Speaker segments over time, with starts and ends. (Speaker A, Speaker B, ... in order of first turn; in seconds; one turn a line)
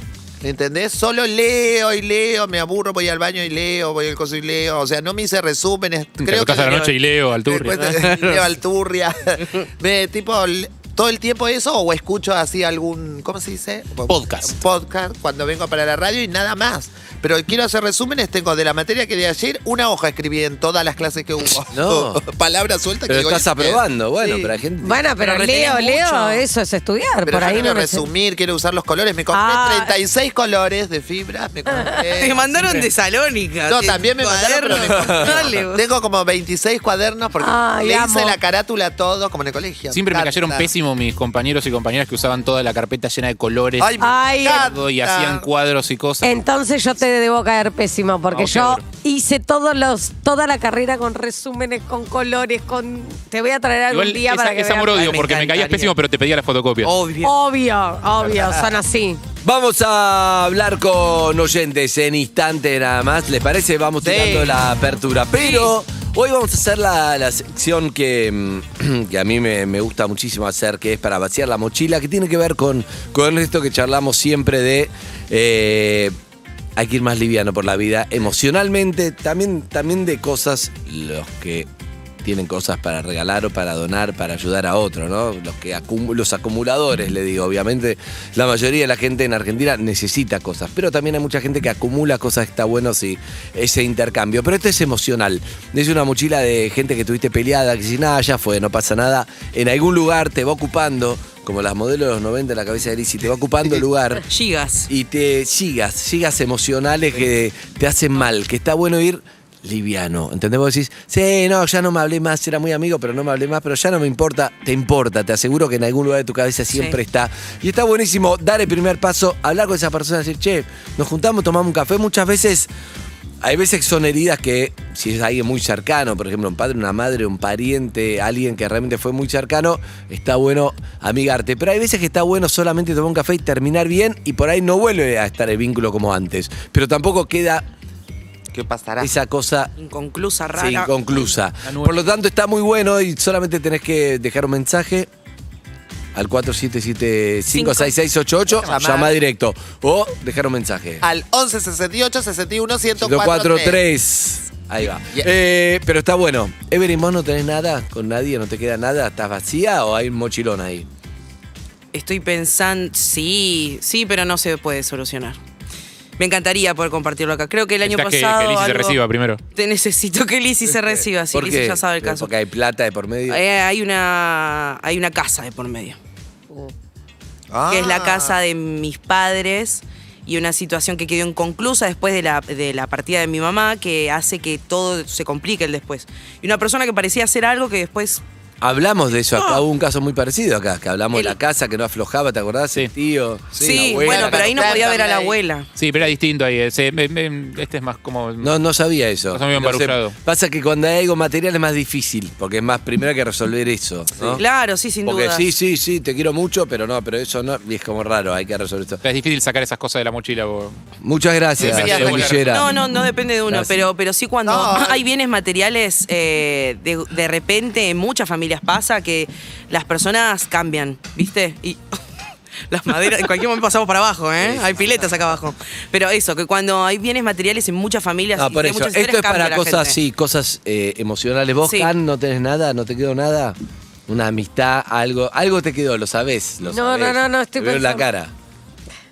Speaker A: 0.4-6.9
Speaker B: 6.2-8.1
Speaker A: 7.5-24.4
Speaker C: 7.8-8.5
Speaker B: 14.1-14.6
Speaker D: 21.7-22.2
Speaker D: 23.1-25.1
Speaker E: 24.8-28.1
Speaker C: 25.2-26.4
Speaker A: 27.2-32.9
Speaker E: 29.3-29.9
Speaker C: 32.2-35.8
Speaker A: 33.7-40.7
Speaker D: 34.7-35.4
Speaker E: 37.4-38.4
Speaker B: 39.9-46.4
Speaker A: 43.8-45.5
Speaker E: 44.0-44.7
Speaker E: 46.2-55.2
Speaker B: 48.3-48.8
Speaker B: 53.9-56.9
Speaker C: 54.9-55.9
Speaker C: 56.8-57.3
Speaker E: 57.2-59.2
Speaker D: 59.4-76.2
Speaker A: 64.0-64.6
Speaker C: 65.3-65.7
Speaker D: 76.8-81.7
Speaker D: 82.2-104.2
Speaker C: 104.3-104.9
Speaker D: 104.9-122.7
Speaker C: 116.7-117.0
Speaker D: 123.4-137.7
Speaker A: 138.5-139.1
Speaker D: 139.0-139.7
Speaker C: 139.8-140.9
Speaker D: 140.6-145.1
Speaker B: 141.7-142.1
Speaker D: 146.1-151.0
Speaker C: 147.5-147.9
Speaker A: 148.5-149.1
Speaker A: 151.0-153.8
Speaker D: 153.0-160.9
Speaker A: 154.8-155.3
Speaker C: 161.9-165.4
Speaker C: 166.2-169.0
Speaker B: 167.8-169.4
Speaker C: 169.6-172.3
Speaker D: 171.3-173.4
Speaker C: 173.3-176.0
Speaker A: 177.5-178.4
Speaker C: 177.7-188.2
Speaker D: 188.6-194.8
Speaker C: 189.3-189.6
Speaker A: 193.6-195.4
Speaker C: 193.6-195.7
Speaker B: 195.8-198.5
Speaker D: 198.4-204.4
Speaker B: 199.3-200.2
Speaker C: 204.4-205.4
Speaker D: 205.1-209.0
Speaker B: 209.0-210.8
Speaker D: 211.0-212.7
Speaker A: 211.6-212.4
Speaker B: 211.6-212.5
Speaker C: 212.4-221.8
Speaker D: 213.5-213.7
Speaker A: 214.4-215.0
Speaker C: 222.7-230.0
Speaker D: 224.4-225.1
Speaker D: 228.4-233.6
Speaker C: 231.6-231.9
Speaker D: 234.1-238.3
Speaker E: 236.7-238.1